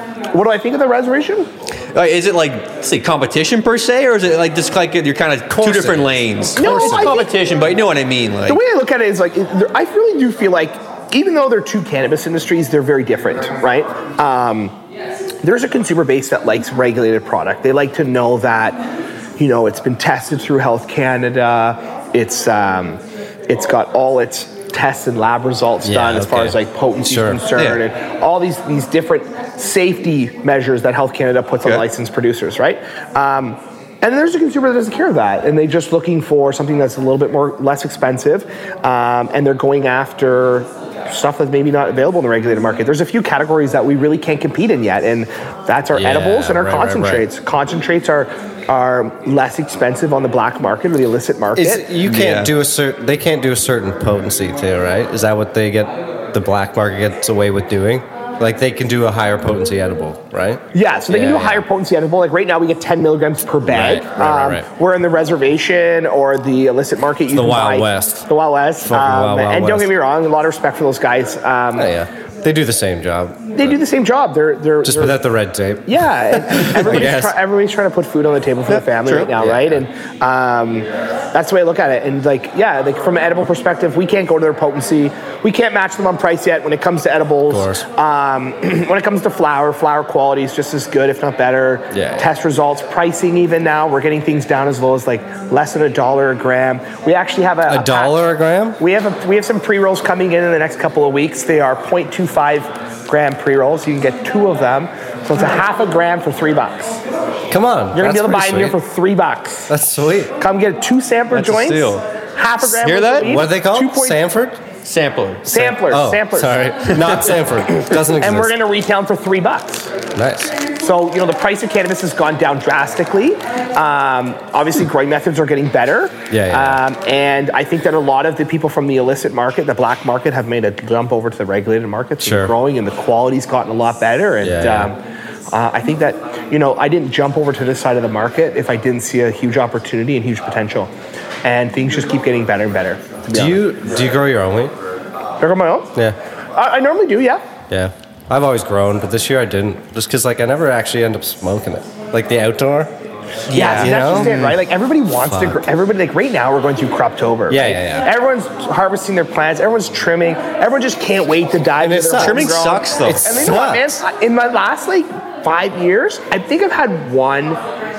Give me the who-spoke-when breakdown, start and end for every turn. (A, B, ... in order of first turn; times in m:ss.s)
0:00.3-0:01.5 A
0:01.9-0:08.6 B
0:05.5-0:07.2 C
0:06.6-0:07.3 A
0:08.5-0:14.8 A
0:15.4-0:18.8 A
0:19.4-0:51.9 A
0:25.8-0:27.4 C
0:45.9-0:47.2 C
0:51.5-1:01.6 C
0:52.0-0:52.5 B
1:00.7-1:11.9 A
1:03.6-1:04.7 C
1:07.3-1:08.3 C
1:08.9-1:09.9 C
1:11.8-1:13.8 C
1:13.5-1:15.2 A
1:14.8-1:17.4 C
1:15.9-1:38.2 A
1:18.7-1:19.3 B
1:19.4-1:19.8 C
1:27.5-1:27.8 C
1:31.9-1:32.3 C
1:37.7-1:38.8 C
1:38.8-1:47.0 A
1:47.5-1:48.8 C
1:47.9-1:49.7 A
1:49.7-1:50.3 C
1:50.4-1:54.2 A
1:51.3-1:52.0 B
1:52.6-1:53.4 B
1:53.2-1:54.6 C
1:54.8-1:55.5 B
1:55.4-1:56.7 A
1:55.5-1:58.6 C
1:56.9-1:57.2 B
1:57.7-1:59.9 A
2:00.1-2:00.5 C
2:00.8-2:20.9 A
2:06.3-2:06.8 C
2:12.2-2:12.5 C
2:14.4-2:14.9 C
2:21.4-2:23.7 A
2:23.3-2:24.7 C
2:25.4-2:25.9 A
2:26.5-2:27.4 A
2:27.7-2:32.9 C
2:33.5-2:34.6 B
2:33.5-2:47.6 A
2:33.6-2:34.4 C
2:35.3-2:35.6 C
2:37.5-2:38.1 C
2:41.8-2:43.9 C
2:42.2-2:43.2 B